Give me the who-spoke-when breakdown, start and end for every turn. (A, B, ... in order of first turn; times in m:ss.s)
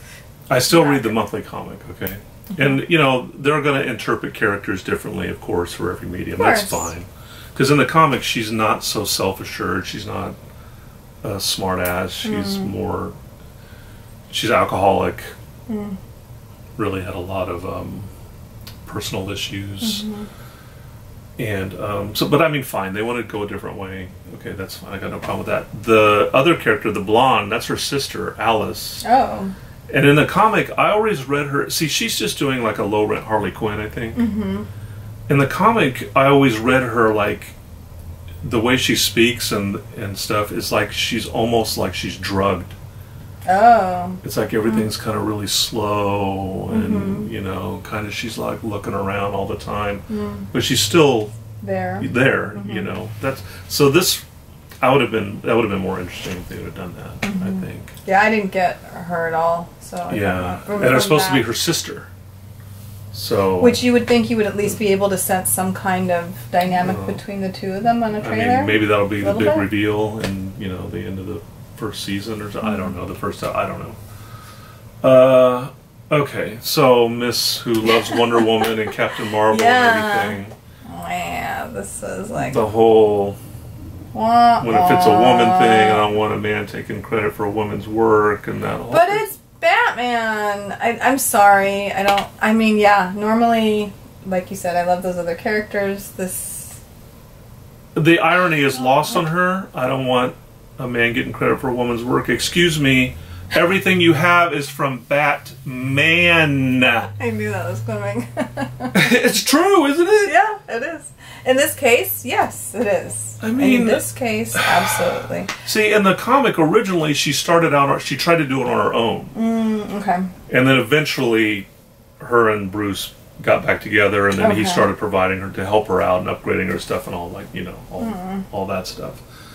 0:00.5-0:10.4 A
0:00.7-0:01.1 B
0:06.4-0:06.9 B
0:11.2-0:13.2 A
0:12.2-0:12.7 B
0:14.3-0:15.3 A
0:15.7-0:16.0 B
0:16.8-0:18.1 A
0:18.8-0:20.0 A
0:19.8-0:20.3 B
0:21.4-0:29.0 A
0:29.0-0:29.5 B
0:29.9-0:34.2 A
0:34.1-0:34.7 B
0:35.3-0:37.5 A
0:38.4-0:42.8 A
0:43.4-0:44.9 B
0:44.2-0:51.3 A
0:46.7-0:47.3 B
0:50.1-0:50.5 B
0:51.6-0:52.9 B
0:52.0-0:54.2 A
0:54.8-0:57.9 A
0:57.2-1:01.4 B
1:00.1-1:02.1 A
1:03.1-1:03.8 A
1:03.6-1:09.7 B
1:06.7-1:07.2 A
1:08.2-1:14.0 A
1:12.6-1:12.9 B
1:15.0-1:20.5 A
1:17.9-1:18.9 B
1:19.4-1:22.6 B
1:22.4-1:23.4 A
1:24.1-1:26.1 B
1:24.6-1:29.3 A
1:28.9-1:36.8 B
1:37.9-1:47.1 A
1:47.2-1:49.0 B
1:48.9-1:50.3 A
1:50.2-1:55.5 B
1:53.4-1:54.9 A
1:55.6-1:59.3 A
1:59.3-2:00.3 B
2:00.5-2:01.7 A
2:02.2-2:09.2 A
2:04.4-2:04.9 B
2:08.0-2:08.4 B